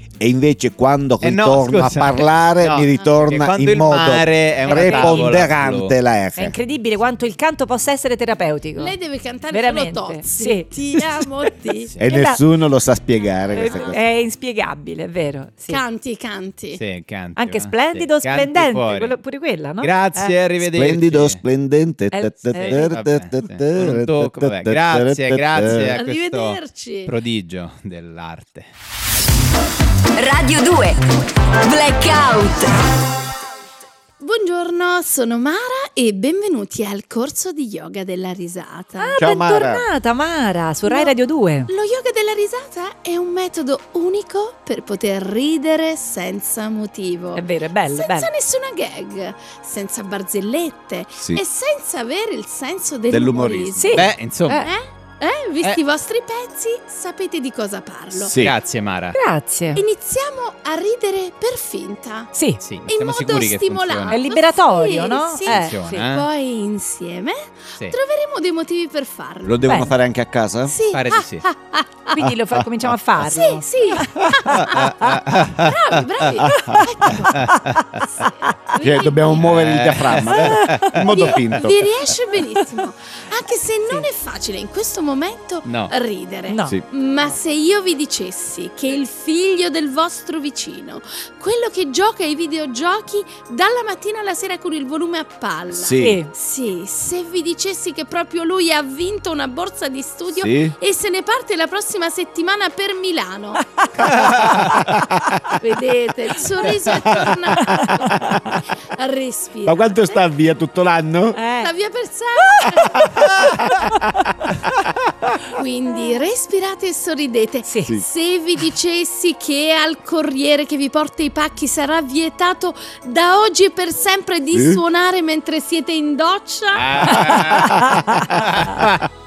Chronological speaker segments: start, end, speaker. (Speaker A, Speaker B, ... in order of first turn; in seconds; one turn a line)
Speaker A: 0.2-6.6
Speaker B: 1.2-5.9
Speaker C: 4.7-5.3
Speaker C: 6.4-9.0
Speaker D: 8.8-11.9
Speaker C: 9.5-11.3
Speaker A: 12.0-14.0
Speaker C: 12.1-12.4
Speaker C: 13.5-15.8
Speaker D: 13.6-14.0
Speaker D: 15.7-16.8
Speaker B: 16.8-19.1
Speaker C: 17.4-20.4
Speaker B: 19.8-21.4
Speaker A: 20.6-26.0
Speaker C: 22.1-22.9
Speaker B: 22.6-28.7
Speaker D: 25.9-27.1
Speaker E: 30.1-33.0
Speaker D: 34.2-39.2
Speaker C: 39.0-41.7
Speaker A: 39.2-39.9
Speaker D: 40.9-41.1
Speaker D: 41.7-58.3
Speaker C: 47.4-48.3
Speaker A: 51.2-51.4
Speaker A: 53.1-54.1
Speaker C: 53.8-54.7
Speaker B: 53.9-54.7
Speaker A: 58.1-58.6
Speaker B: 58.4-59.2
Speaker C: 59.1-59.8
Speaker D: 59.8-62.3
Speaker C: 62.3-62.6
Speaker B: 62.6-64.2
Speaker D: 62.9-69.8
Speaker C: 64.1-66.1
Speaker B: 65.5-66.3
Speaker A: 69.4-70.8
Speaker C: 69.7-69.9
Speaker D: 70.7-72.0
Speaker B: 70.9-71.5
Speaker C: 72.1-74.2
Speaker D: 73.2-75.0
Speaker B: 74.5-76.3
Speaker C: 74.7-75.2
Speaker D: 75.6-79.5
Speaker A: 76.5-76.8
Speaker B: 77.2-78.2
Speaker C: 77.4-77.8
Speaker A: 78.8-81.8
Speaker B: 79.3-81.6
Speaker C: 80.3-81.0
Speaker D: 81.1-103.8
Speaker B: 85.7-85.9
Speaker C: 86.5-86.8
Speaker A: 95.7-96.2
Speaker C: 96.0-96.3
Speaker A: 100.3-100.7
Speaker A: 104.0-105.6
Speaker B: 104.1-104.8
Speaker D: 105.6-110.0
Speaker A: 106.7-108.6
Speaker C: 107.6-108.6
Speaker A: 109.7-111.4
Speaker C: 111.3-111.7
Speaker D: 111.6-113.3
Speaker A: 112.7-115.3
Speaker C: 113.7-114.0
Speaker D: 115.5-127.5
Speaker C: 117.7-118.0
Speaker A: 124.5-124.8
Speaker B: 126.7-129.1
Speaker C: 127.3-128.8